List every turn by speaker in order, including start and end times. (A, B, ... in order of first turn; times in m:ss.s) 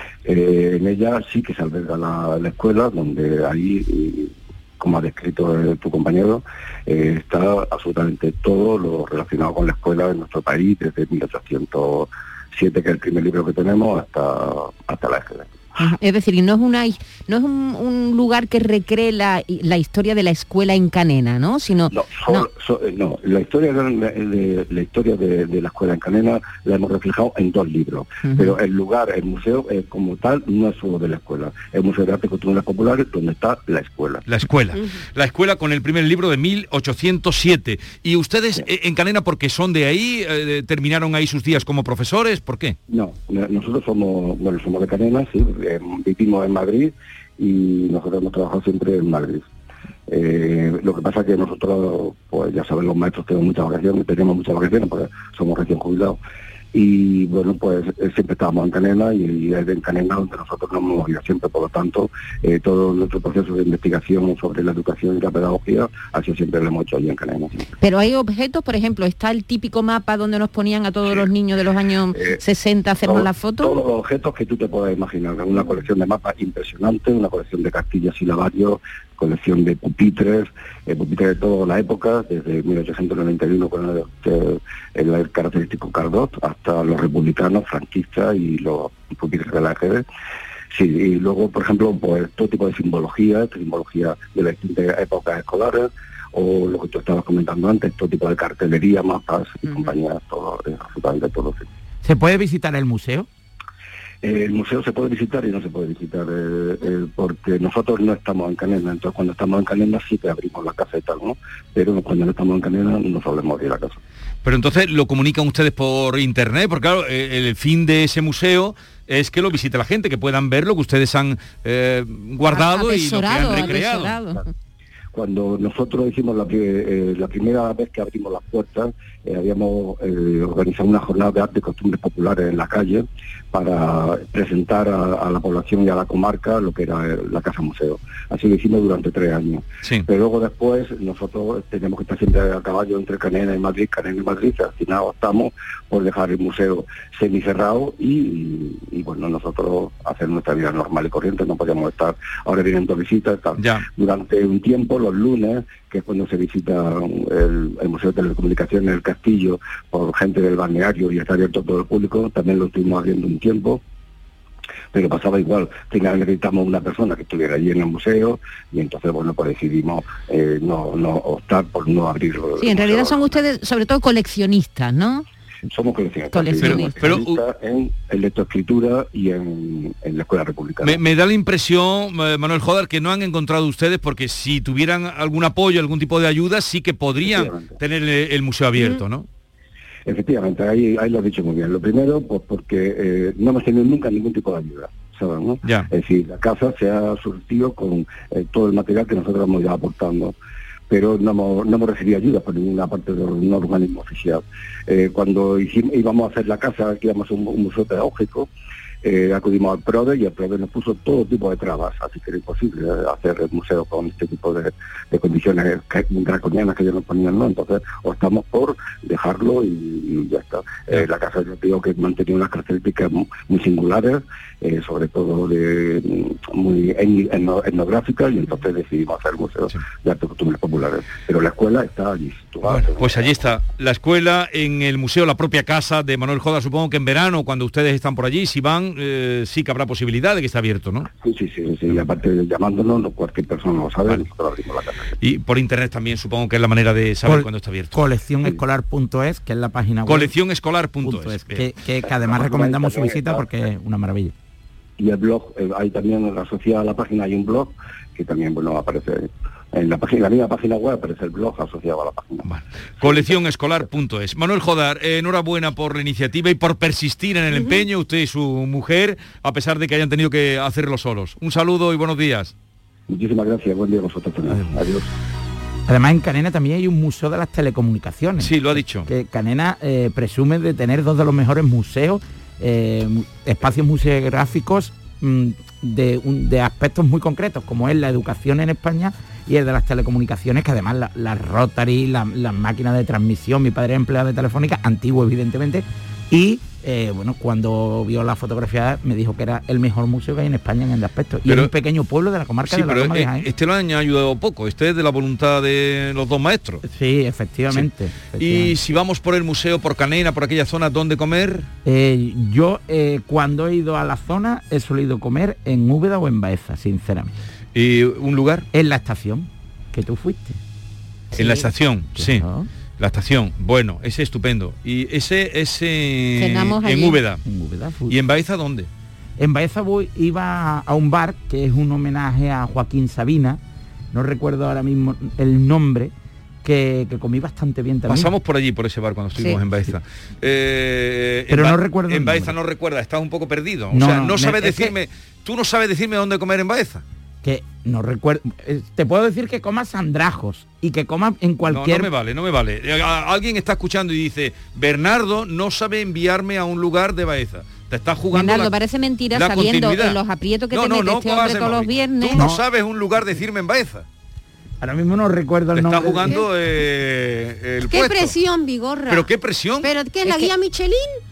0:00.2-0:15.5 A
0:15.8-0:22.5 B
0:21.9-0:34.2 A
0:28.2-0:28.5 B
0:34.3-0:42.8 C
0:42.9-0:49.4 A
0:50.1-0:56.2 A
0:56.7-1:07.6 A
1:07.8-1:13.8 B
1:13.0-1:30.0 A
1:30.7-1:41.7 A
1:42.0-1:43.3 D
1:44.2-1:54.0 A
1:54.4-2:04.2 C
2:02.5-2:04.5 B
2:05.1-2:43.8 A
2:33.6-2:33.8 C
2:44.9-2:53.4 A
2:52.6-2:55.2 B
2:55.7-3:01.0 A
2:56.3-2:57.0 B
2:56.6-2:57.4 C
3:00.8-3:09.3 C
3:07.2-3:07.7 A
3:10.1-3:20.3 A
3:15.6-3:15.9 C
3:20.9-3:28.5 A
3:29.0-3:53.4 A
3:52.6-4:01.1 C
4:01.2-4:05.1 A
4:05.2-4:08.0 C
4:07.2-4:10.3 D
4:10.1-4:11.7 C
4:11.0-4:14.3 D
4:12.1-4:13.4 A
4:15.0-4:22.4 A
4:22.4-4:32.5 C
4:23.0-4:23.4 A
4:33.1-4:35.0 A
4:35.9-5:03.5 D
4:38.4-4:39.1 C
5:01.4-5:01.7 C
5:02.7-5:06.8 C
5:06.8-5:08.7 D
5:08.4-5:11.7 C
5:11.8-5:17.3 D
5:17.7-5:18.7 C
5:18.7-5:20.6 D
5:21.3-5:21.7 B
5:21.4-5:22.4 C
5:22.1-5:22.7 D
5:23.0-5:27.4 C
5:26.4-5:27.2 B
5:27.4-5:28.2 D
5:28.1-5:28.9 C
5:29.4-5:33.6 D
5:34.1-5:36.1 D
5:36.6-5:38.3 D
5:38.1-5:47.0 C
5:41.5-5:42.5 D
5:43.9-5:44.9 D
5:47.4-5:52.1 D
5:51.7-5:58.7 C
5:58.3-6:02.4 B
5:59.3-6:00.2 C
6:00.7-6:04.0 C
6:04.8-6:06.4 D
6:05.7-6:08.4 C
6:07.9-6:09.3 E
6:09.1-6:09.9 C
6:09.8-6:11.2 E
6:10.2-6:10.5 B